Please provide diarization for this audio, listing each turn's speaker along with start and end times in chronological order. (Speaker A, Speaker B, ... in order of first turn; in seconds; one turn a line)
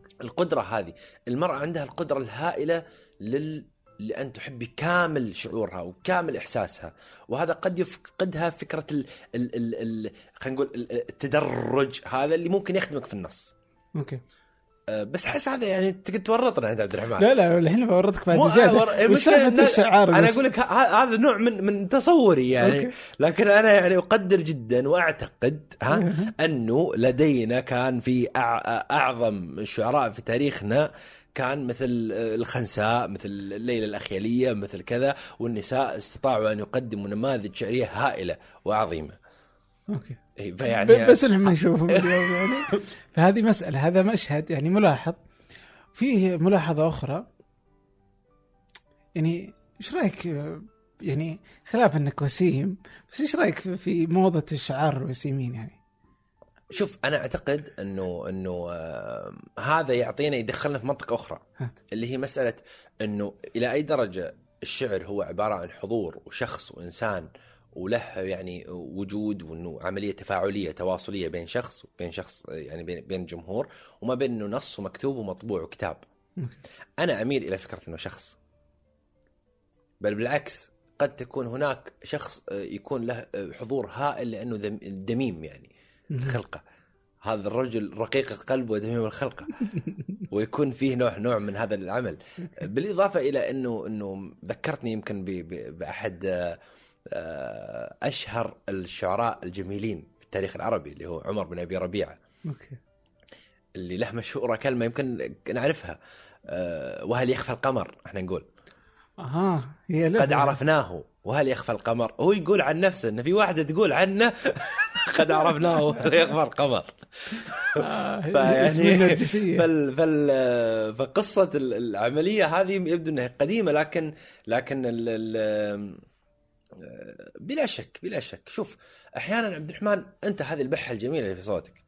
Speaker A: 0.2-13.5
Speaker B: 14.0-14.2
Speaker A: 14.9-17.3
Speaker B: 17.2-20.4
Speaker A: 18.3-39.2
Speaker B: 22.6-22.9
Speaker B: 25.9-26.3
Speaker B: 39.9-45.2
Speaker A: 40.4-42.8
Speaker B: 45.9-47.3
Speaker B: 49.2-55.8
Speaker A: 56.7-76.0
Speaker A: 77.0-78.4
Speaker A: 80.0-86.6
Speaker B: 86.1-86.4
Speaker A: 87.2-89.6
Speaker A: 90.3-102.2
Speaker B: 102.5-102.8
Speaker A: 103.8-108.5
Speaker B: 109.2-110.6
Speaker A: 110.2-126.0
Speaker B: 117.8-119.7
Speaker A: 126.8-131.8